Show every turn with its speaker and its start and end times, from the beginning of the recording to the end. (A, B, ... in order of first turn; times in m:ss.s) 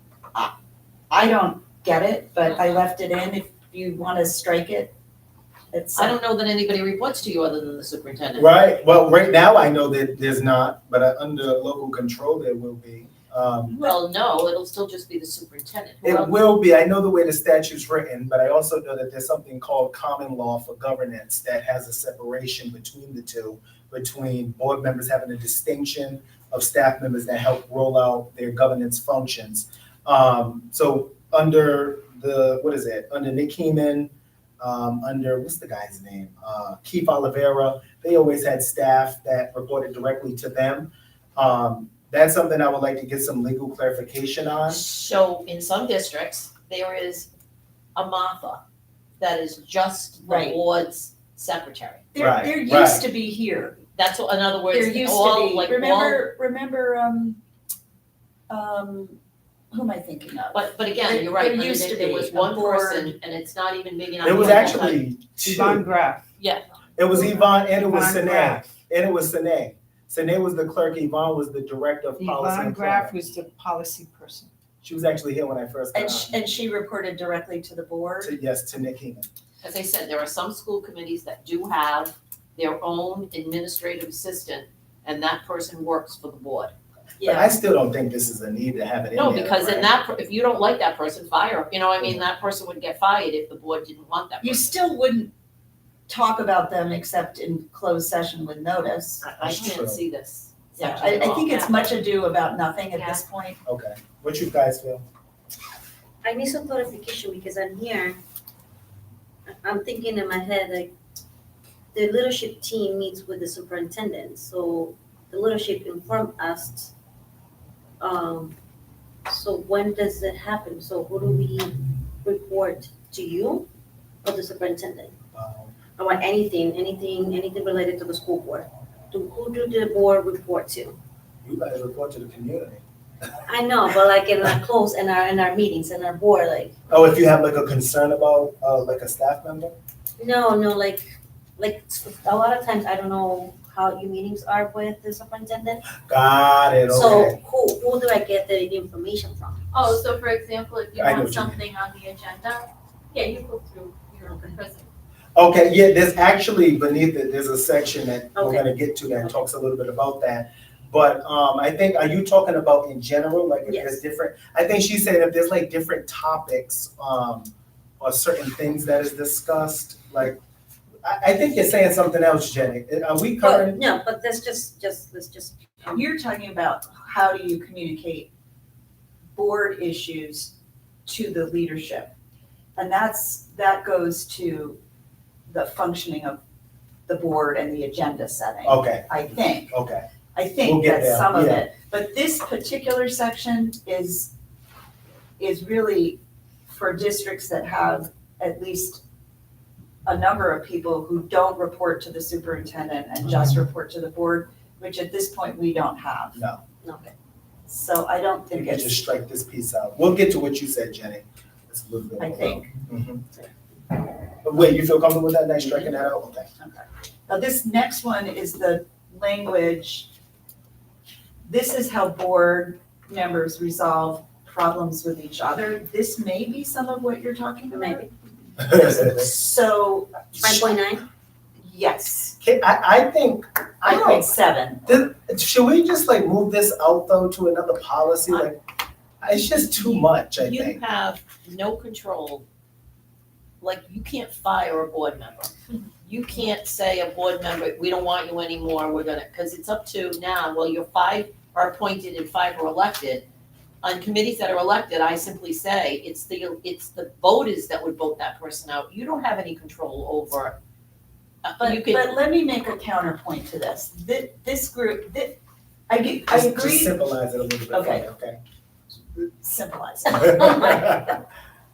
0:01.1-0:04.9 A
0:05.7-0:06.2 A
0:05.9-0:08.5 B
0:08.4-0:13.8 C
0:13.7-0:14.0 A
0:13.8-0:16.4 B
0:16.0-0:44.8 C
0:44.7-0:47.3 B
0:48.0-0:48.6 B
0:49.2-0:52.0 B
0:50.2-0:50.6 A
0:52.1-0:53.8 A
0:52.2-0:53.0 C
0:54.0-0:56.2 B
0:54.7-0:57.4 A
0:58.5-0:59.2 A
0:59.7-1:03.2 A
1:00.5-1:05.0 B
1:04.2-1:05.8 C
1:05.4-1:06.2 D
1:06.4-1:06.7 B
1:07.0-1:13.2 C
1:07.1-1:08.7 D
1:12.2-1:14.5 D
1:14.8-1:16.3 C
1:15.9-1:18.4 A
1:18.2-1:19.3 C
1:19.6-1:26.7 B
1:27.2-1:27.5 A
1:27.2-1:29.9 C
1:29.1-1:34.7 B
1:34.4-1:35.3 A
1:36.1-1:39.2 A
1:39.2-1:41.9 B
1:39.4-1:40.0 C
1:40.8-1:43.6 A
1:43.6-1:45.0 C
1:46.2-1:48.2 E
1:49.6-1:50.9 E
1:51.9-1:56.9 E
1:58.0-1:58.6 E
1:59.3-2:03.7 E
2:04.2-2:05.1 E
2:05.3-2:05.7 C
2:06.0-2:11.0 E
2:11.4-2:12.8 C
2:13.5-2:16.7 E
2:16.9-2:19.8 C
2:20.2-2:21.1 E
2:21.6-2:25.9 E
2:26.0-2:27.4 C
2:26.9-2:29.7 E
2:29.7-2:34.9 F
2:31.0-2:31.6 C
2:34.2-2:34.5 E
2:35.3-2:50.4 C
2:38.4-2:38.7 E
2:43.6-2:44.0 E
2:51.0-2:53.8 C
2:53.4-2:56.0 E
2:55.9-2:58.3 A
2:59.3-3:00.5 A
3:01.1-3:02.1 A
3:02.8-3:04.8 A
3:05.5-3:06.4 A
3:07.1-3:09.7 A
3:08.6-3:10.1 C
3:10.3-3:14.3 A
3:10.6-3:11.7 C
3:15.4-3:19.0 A
3:20.0-3:26.4 A
3:26.3-3:26.6 C
3:26.8-3:27.1 E
3:27.7-3:29.0 A
3:28.5-3:33.3 C
3:32.2-3:32.7 A
3:34.4-3:36.5 C
3:36.6-3:40.1 A
3:41.4-3:48.1 A
3:47.7-3:48.0 E
3:48.6-3:50.8 A
3:48.6-3:49.3 C
3:50.4-3:51.1 E
3:51.6-3:52.4 A
3:52.4-3:54.3 C
3:53.8-3:54.9 A
3:54.9-3:58.6 C
3:59.2-4:00.8 C
4:00.3-4:02.4 B
4:03.6-4:05.5 B
4:06.1-4:13.2 B
4:13.8-4:20.6 B
4:21.4-4:22.1 B
4:21.6-4:27.0 A
4:26.3-4:28.4 C
4:27.7-4:28.1 A
4:29.4-4:31.1 A
4:30.1-4:31.2 C